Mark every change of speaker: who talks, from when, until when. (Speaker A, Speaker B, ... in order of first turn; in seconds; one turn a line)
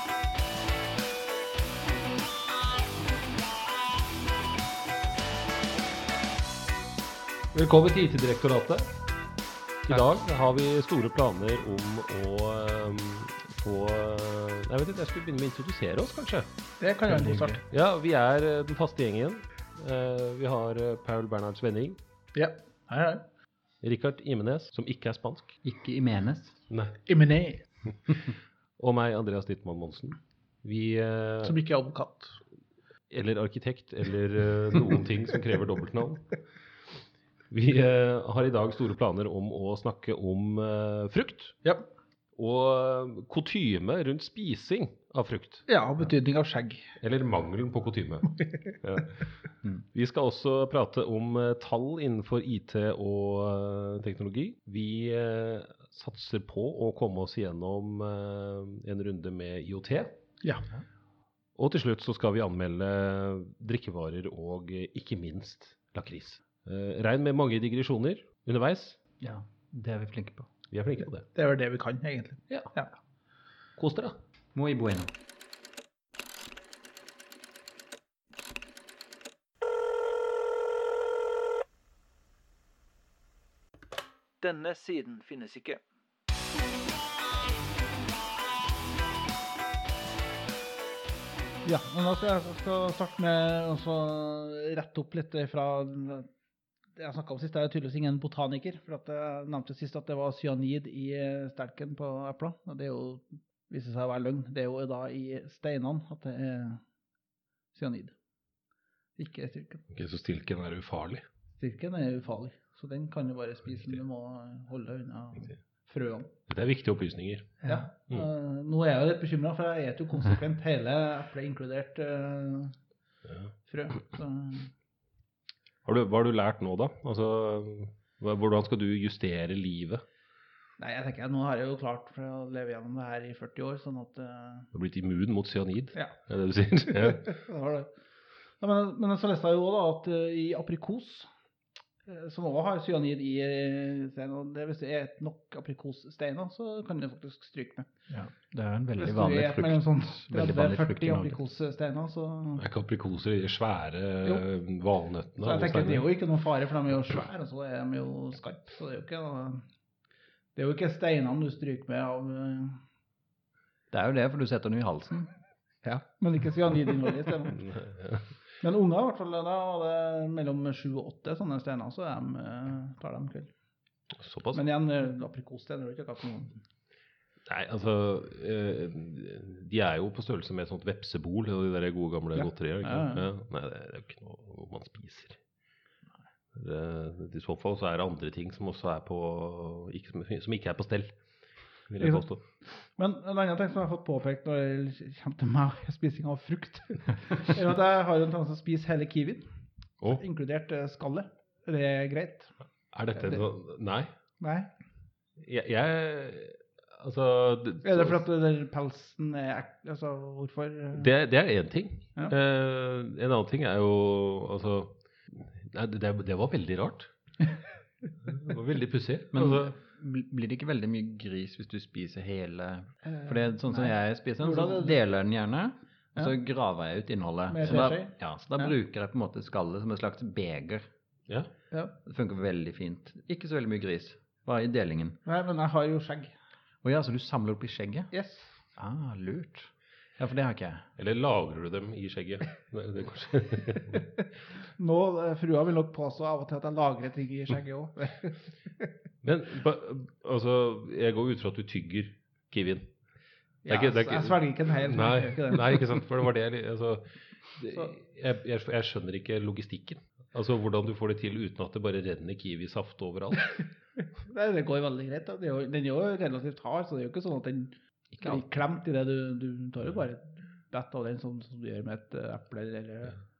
Speaker A: 7.5-8.9
Speaker A: 9.9-16.5
Speaker B: 16.8-17.6
Speaker A: 17.1-22.0
Speaker B: 22.4-23.2
Speaker A: 23.8-25.6
Speaker C: 25.6-26.6
Speaker A: 26.7-27.0
Speaker B: 27.1-27.7
Speaker A: 28.8-31.6
Speaker B: 31.4-32.4
Speaker A: 33.1-36.4
Speaker A: 37.5-41.6
Speaker A: 42.4-45.7
Speaker B: 45.7-47.0
Speaker A: 47.0-60.2
Speaker B: 60.4-60.7
Speaker A: 61.6-69.0
Speaker C: 69.2-70.5
Speaker A: 70.7-71.3
Speaker B: 71.3-72.9
Speaker A: 73.8-74.2
Speaker C: 74.5-75.1
Speaker B: 84.4-85.8
Speaker B: 91.7-96.3
Speaker B: 97.0-106.8
Speaker B: 107.7-108.2
Speaker B: 109.2-109.9
Speaker A: 109.9-111.2
Speaker B: 111.6-116.3
Speaker A: 116.5-118.3
Speaker B: 117.6-122.8
Speaker A: 123.3-123.5
Speaker B: 123.7-124.7
Speaker A: 125.8-130.0
Speaker B: 130.8-134.7
Speaker A: 134.7-137.4
Speaker B: 136.9-137.9
Speaker B: 138.6-141.3
Speaker B: 142.1-147.9
Speaker C: 148.1-151.4
Speaker B: 149.0-152.6
Speaker A: 152.6-156.2
Speaker B: 155.4-159.7
Speaker B: 160.6-162.8
Speaker C: 163.9-165.3
Speaker B: 165.8-167.6
Speaker A: 167.5-168.3
Speaker B: 168.6-173.5
Speaker A: 174.2-174.7
Speaker B: 174.5-176.6
Speaker A: 177.4-185.4
Speaker B: 182.3-183.3
Speaker A: 186.5-191.2
Speaker A: 191.9-192.4
Speaker B: 192.0-199.5
Speaker B: 200.1-202.5
Speaker A: 202.9-204.1
Speaker B: 203.2-203.5
Speaker B: 204.4-204.7
Speaker A: 205.4-208.2
Speaker B: 207.8-211.1
Speaker A: 210.9-217.1
Speaker A: 218.2-219.7
Speaker C: 219.3-230.9
Speaker B: 223.0-225.0
Speaker B: 227.5-228.7
Speaker C: 232.0-235.2
Speaker B: 235.3-236.3
Speaker C: 236.8-238.1
Speaker B: 238.1-238.6
Speaker C: 238.8-240.9
Speaker A: 241.0-244.1
Speaker B: 243.9-244.2
Speaker B: 244.8-248.4
Speaker A: 249.2-252.9
Speaker B: 253.7-255.9
Speaker A: 253.7-263.6
Speaker B: 264.1-273.2